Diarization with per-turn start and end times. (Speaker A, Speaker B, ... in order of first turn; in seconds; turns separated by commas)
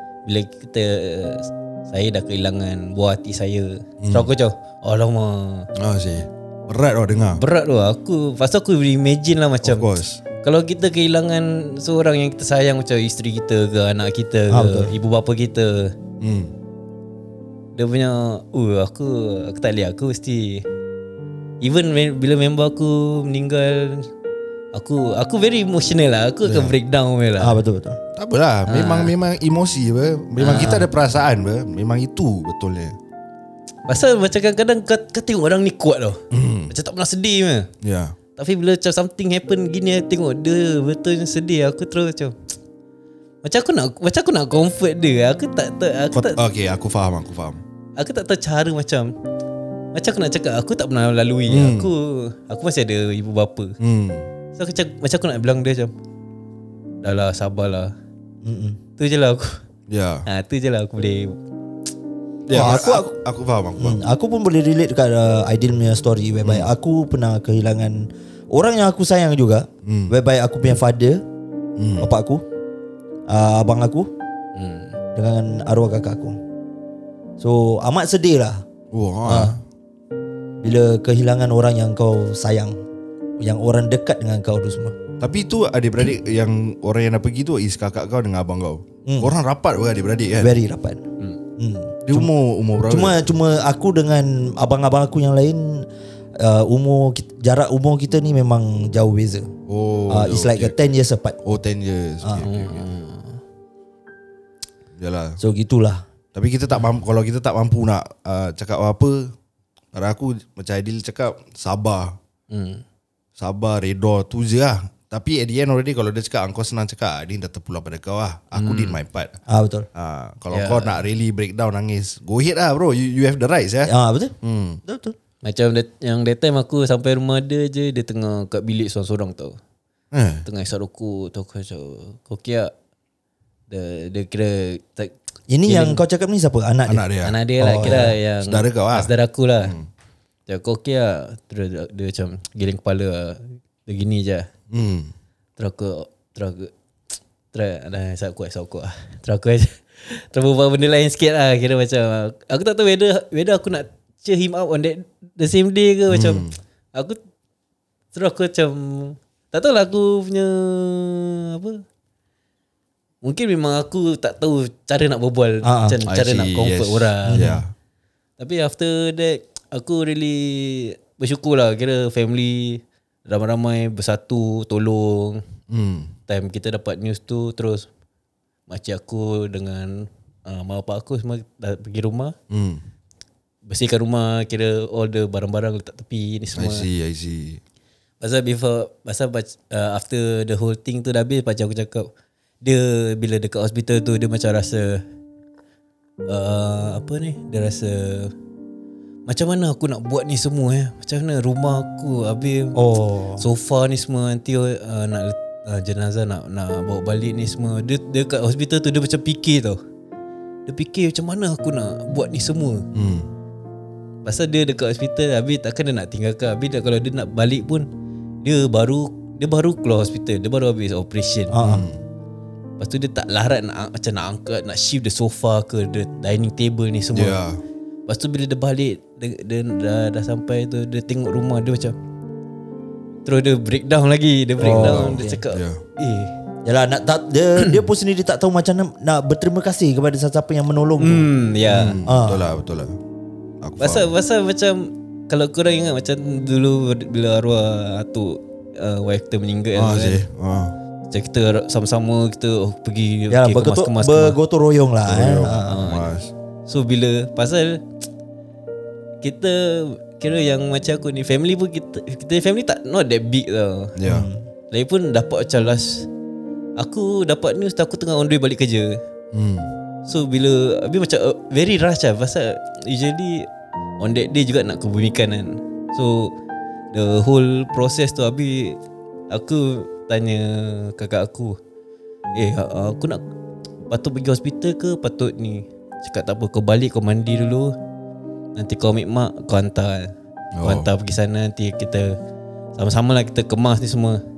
Speaker A: 0.2-5.7, Speaker B: 4.0-4.3, Speaker B: 5.8-7.4, Speaker A: 7.4-9.9, Speaker B: 9.6-10.2, Speaker A: 10.4-15.9, Speaker C: 14.5-14.9, Speaker B: 16.2-16.5, Speaker A: 17.8-20.6, Speaker A: 21.6-24.1, Speaker A: 24.7-27.6, Speaker C: 27.4-28.0, Speaker B: 28.2-33.0, Speaker A: 28.7-29.1, Speaker A: 30.4-30.9, Speaker A: 33.9-37.7, Speaker B: 36.3-36.7, Speaker B: 37.8-38.2, Speaker A: 38.4-42.4, Speaker A: 43.4-46.4, Speaker B: 46.1-47.6, Speaker A: 48.0-49.1, Speaker A: 49.9-53.8, Speaker B: 51.5-51.9, Speaker B: 53.8-54.3, Speaker A: 54.6-55.9, Speaker A: 57.0-57.9, Speaker C: 58.4-58.8, Speaker A: 59.0-59.6, Speaker B: 59.9-60.3, Speaker A: 60.3-61.4, Speaker B: 62.5-64.0, Speaker C: 62.5-63.1, Speaker C: 63.8-71.2, Speaker B: 66.4-66.7, Speaker B: 69.8-70.1, Speaker B: 71.8-72.1, Speaker C: 72.0-72.4, Speaker C: 73.3-74.1, Speaker A: 74.5-75.0, Speaker C: 75.2-76.4, Speaker C: 77.4-78.6, Speaker B: 78.9-79.6, Speaker C: 79.2-79.6, Speaker C: 80.6-82.8, Speaker C: 83.4-85.0, Speaker B: 85.2-90.6, Speaker C: 89.1-89.3, Speaker C: 90.4-91.0, Speaker C: 91.6-92.3, Speaker B: 92.0-93.3, Speaker C: 92.9-99.5, Speaker B: 99.7-100.7, Speaker C: 100.1-101.4, Speaker B: 101.4-102.9, Speaker A: 102.4-103.4, Speaker B: 105.0-105.4, Speaker C: 105.4-106.0, Speaker B: 106.3-109.3, Speaker B: 109.9-112.2, Speaker A: 112.5-112.8, Speaker B: 113.4-119.4, Speaker A: 118.5-119.0, Speaker C: 119.5-119.9, Speaker B: 120.0-124.8, Speaker A: 120.5-121.0, Speaker C: 123.8-125.2, Speaker A: 125.4-129.6, Speaker B: 130.1-130.4, Speaker A: 130.4-132.7, Speaker A: 133.7-136.0, Speaker C: 135.5-137.1, Speaker B: 136.9-139.9, Speaker A: 137.2-139.7, Speaker C: 137.6-138.1, Speaker A: 140.5-144.5, Speaker B: 144.7-145.1, Speaker A: 145.6-146.7, Speaker A: 147.5-157.2, Speaker B: 156.1-156.5, Speaker A: 158.1-161.8, Speaker A: 163.2-167.5, Speaker C: 165.6-166.0, Speaker B: 166.1-167.7, Speaker C: 167.3-167.6, Speaker A: 168.4-175.4, Speaker B: 175.7-176.1, Speaker A: 176.3-177.9, Speaker A: 178.7-182.3, Speaker B: 182.5-182.8, Speaker A: 183.7-186.9, Speaker B: 186.6-187.6, Speaker A: 188.2-192.1, Speaker A: 192.6-195.0, Speaker A: 196.3-198.3, Speaker A: 199.3-202.8, Speaker C: 202.8-203.4, Speaker A: 203.4-209.8, Speaker A: 210.7-212.9, Speaker B: 212.9-213.3, Speaker A: 214.2-217.9, Speaker A: 218.4-221.6, Speaker C: 221.5-221.9, Speaker B: 221.6-222.0, Speaker A: 222.8-227.4, Speaker B: 227.1-227.6, Speaker A: 228.1-232.0, Speaker A: 233.2-236.3, Speaker C: 234.6-235.4, Speaker B: 234.6-235.8, Speaker C: 236.7-241.3, Speaker A: 241.0-242.0, Speaker B: 241.7-242.9, Speaker C: 242.1-242.5, Speaker B: 243.6-244.1, Speaker A: 243.8-250.2, Speaker B: 249.7-250.8, Speaker A: 251.1-254.4, Speaker C: 253.3-255.8, Speaker B: 255.1-256.3, Speaker A: 255.7-256.1, Speaker A: 256.7-257.8, Speaker A: 259.2-264.0, Speaker B: 264.0-264.3, Speaker C: 264.0-264.5, Speaker A: 264.7-266.1, Speaker A: 266.8-269.0, Speaker B: 269.3-269.7, Speaker A: 270.1-273.5, Speaker A: 274.0-276.3, Speaker A: 276.9-278.8, Speaker A: 279.3-281.6, Speaker A: 282.4-283.2, Speaker A: 283.9-287.8, Speaker A: 288.6-292.2, Speaker B: 290.6-290.9, Speaker A: 292.8-294.2